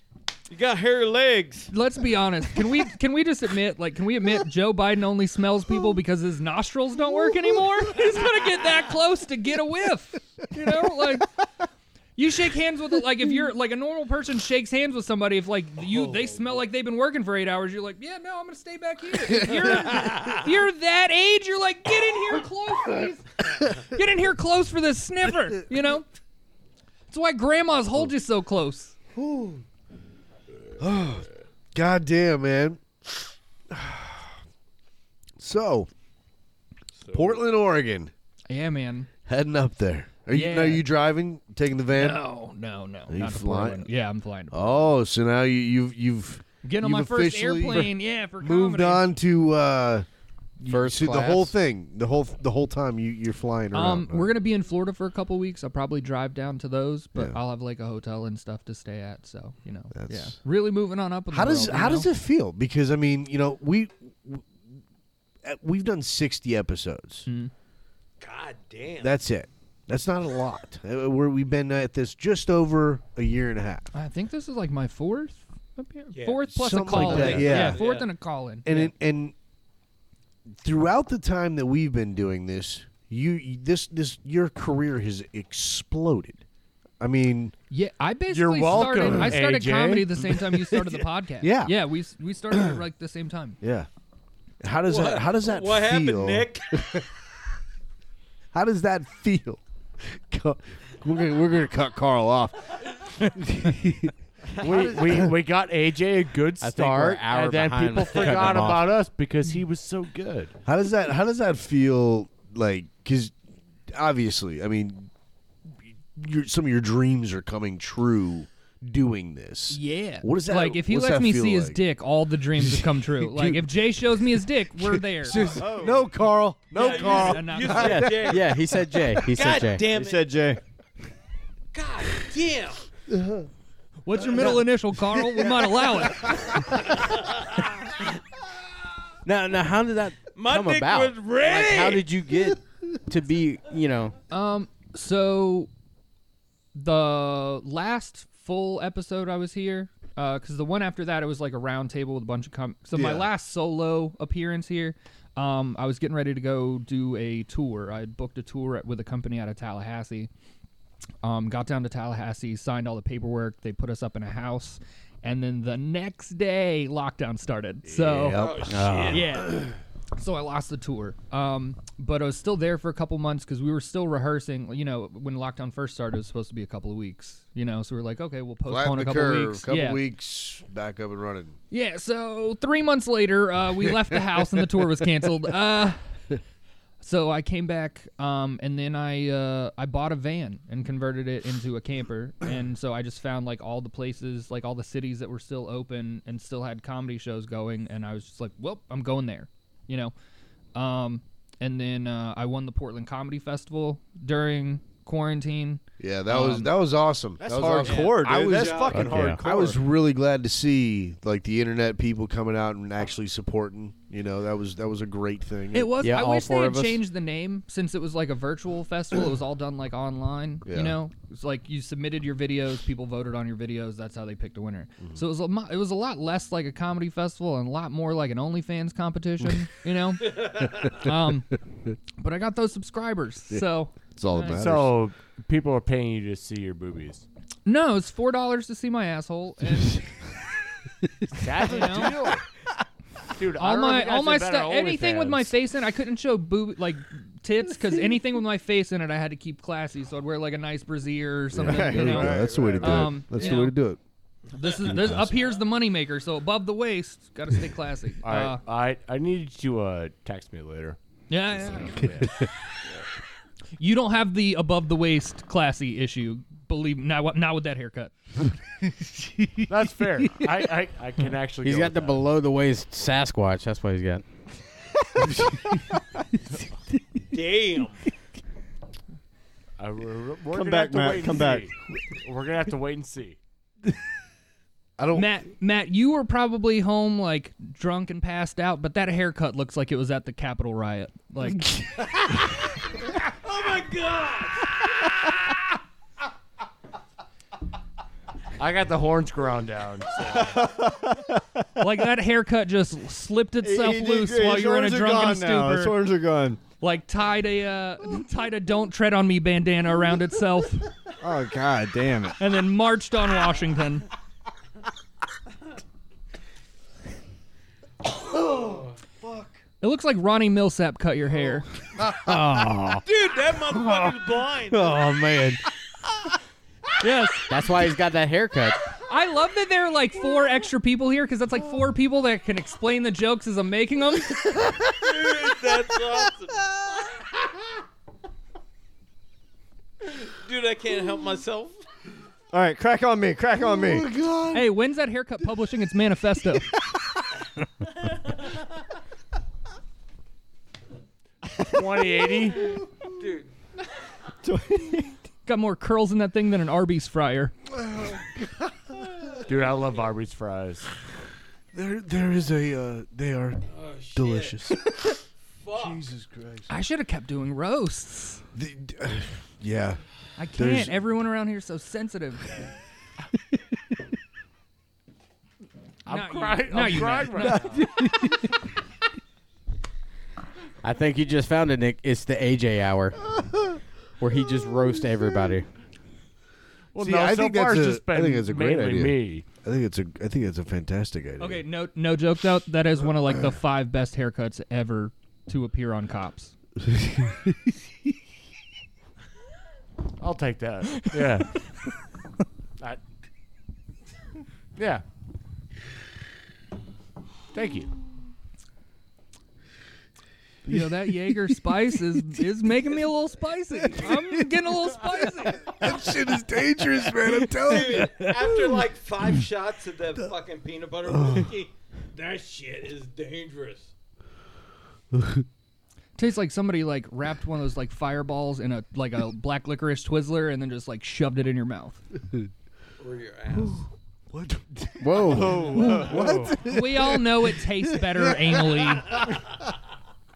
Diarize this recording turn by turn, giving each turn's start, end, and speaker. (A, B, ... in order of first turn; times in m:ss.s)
0:00.5-0:01.7 A
0:01.7-0:11.3 B
0:12.2-0:26.1 B
0:19.3-0:20.2 C
0:27.1-0:29.0 B
0:29.2-0:29.6 C
0:30.8-0:34.4 C
0:35.4-0:35.9 C
0:37.1-0:38.1 C
0:38.5-0:39.1 B
0:39.3-0:42.2 C
0:40.3-0:40.8 B
0:41.9-0:44.9 B
0:43.1-0:43.9 C
0:44.5-0:50.1 C
0:46.6-0:49.0 B
0:50.6-0:54.3 C
0:50.6-0:51.5 D
0:53.7-1:02.1 B
0:59.9-1:00.4 C
1:01.3-1:04.6 C
1:05.4-1:07.3 C
1:08.2-1:09.2 A
1:09.0-1:13.9 C
1:13.9-1:18.9 B
1:16.2-1:18.1 A
1:16.5-1:17.8 C
1:18.6-1:19.4 C
1:20.6-1:26.4 C
1:27.0-1:27.5 C
1:27.7-1:33.6 B
1:28.3-1:30.2 E
1:31.4-1:31.8 C
1:32.5-1:32.8 C
1:33.6-1:33.9 C
1:34.6-1:37.1 C
1:34.9-1:37.0 A
1:38.5-1:44.1 C
1:44.6-1:50.6 E
1:44.6-1:45.2 F
1:46.6-1:48.9 D
1:48.2-1:48.5 A
1:50.6-1:53.3 C
1:53.9-1:55.1 C
1:56.1-2:01.8 C
1:59.7-2:05.6 B
2:02.6-2:08.4 C
2:05.4-2:06.0 F
2:06.7-2:08.3 B
2:06.7-2:08.5 A
2:07.7-2:09.8 D
2:09.2-2:10.2 A
2:09.8-2:10.6 F
2:11.7-2:12.9 A
2:13.1-2:13.5 C
2:14.0-2:16.6 B
2:17.0-2:17.4 A
2:19.3-2:24.2 D
2:20.4-2:22.1 A
2:24.3-2:25.7 B
2:26.7-2:40.3 B
2:32.9-2:33.3 C
2:41.2-2:48.5 B
2:48.0-2:48.6 C
2:48.3-2:49.5 A
2:48.4-2:49.4 D
2:49.1-3:00.0 B
2:58.7-3:01.6 C
3:01.7-3:06.0 B
3:03.9-3:04.2 C
3:07.0-3:20.1 B
3:20.8-3:26.7 B
3:26.0-3:36.1 C
3:27.4-3:29.8 F
3:27.8-3:29.4 A
3:28.9-3:29.4 D
3:35.7-3:51.5 B
3:36.0-3:37.0 D
3:40.7-3:41.0 C
3:52.2-3:54.7 B
3:53.5-3:54.9 C
3:54.5-3:57.2 E
3:57.7-4:00.0 B
4:01.3-4:02.5 E
4:01.6-4:02.3 B
4:03.3-4:05.5 E
4:03.6-4:13.8 B
4:11.5-4:14.0 C
4:11.6-4:13.1 F
4:12.3-4:12.8 A
4:14.5-4:18.6 B
4:14.9-4:15.3 C
4:18.2-4:21.0 E
4:21.3-4:22.2 B
4:21.5-4:22.3 E
4:23.8-4:28.4 B
4:29.7-4:32.3 E
4:31.6-4:34.2 D
4:37.3-4:38.0 A
4:39.8-4:43.4 E
4:40.5-4:41.7 F
4:45.0-4:45.3 C
4:45.1-4:51.8 B
4:51.8-4:52.0 C
4:53.3-4:55.3 A
4:58.6-5:00.6 E
5:00.4-5:01.7 F
5:01.8-5:06.0 B
5:03.6-5:06.6 F
5:06.7-5:10.9 B
5:11.2-5:12.4 F
5:12.4-5:14.1 B
5:19.8-5:21.7 B
5:22.0-5:23.0 D
5:23.0-5:25.0 A
5:23.7-5:25.6 D
5:27.0-5:27.5 B
5:27.5-5:28.9 D
5:29.1-5:34.8 B
5:35.0-5:36.9 A
5:40.1-5:41.8 A
5:42.5-5:44.1 F
5:43.6-5:44.7 C
5:44.5-5:46.7 B
5:51.6-5:52.8 E
5:53.0-5:53.5 A
5:54.4-5:55.2 F
5:55.4-5:57.5 B
5:57.8-5:59.4 C
5:59.4-6:00.9 E
6:01.7-6:05.1 C
6:03.7-6:04.6 A
6:05.6-6:06.0 A
6:05.7-6:06.7 C
6:06.7-6:08.4 B
6:08.6-6:10.0 C
6:10.4-6:12.5 B
6:10.6-6:11.0 C
6:16.1-6:17.9 E
6:16.1-6:18.3 B
6:17.7-6:18.4 C
6:20.8-6:23.3 D
6:24.2-6:25.7 D
6:26.9-6:29.4 E
6:27.0-6:31.6 C
6:31.4-6:36.5 B
6:36.9-6:37.7 C
6:40.2-6:41.6 E
6:44.8-6:45.0 E
6:47.5-6:47.9 E
6:50.7-6:56.0 B
6:53.8-6:54.5 C
6:55.7-6:58.8 C
6:57.5-7:03.9 A
7:01.1-7:01.5 C
7:05.1-7:05.4 C
7:06.2-7:12.0 B
7:13.0-7:13.9 A
7:14.3-7:19.0 C
7:15.0-7:16.0 D
7:15.3-7:16.6 E
7:15.7-7:19.2 B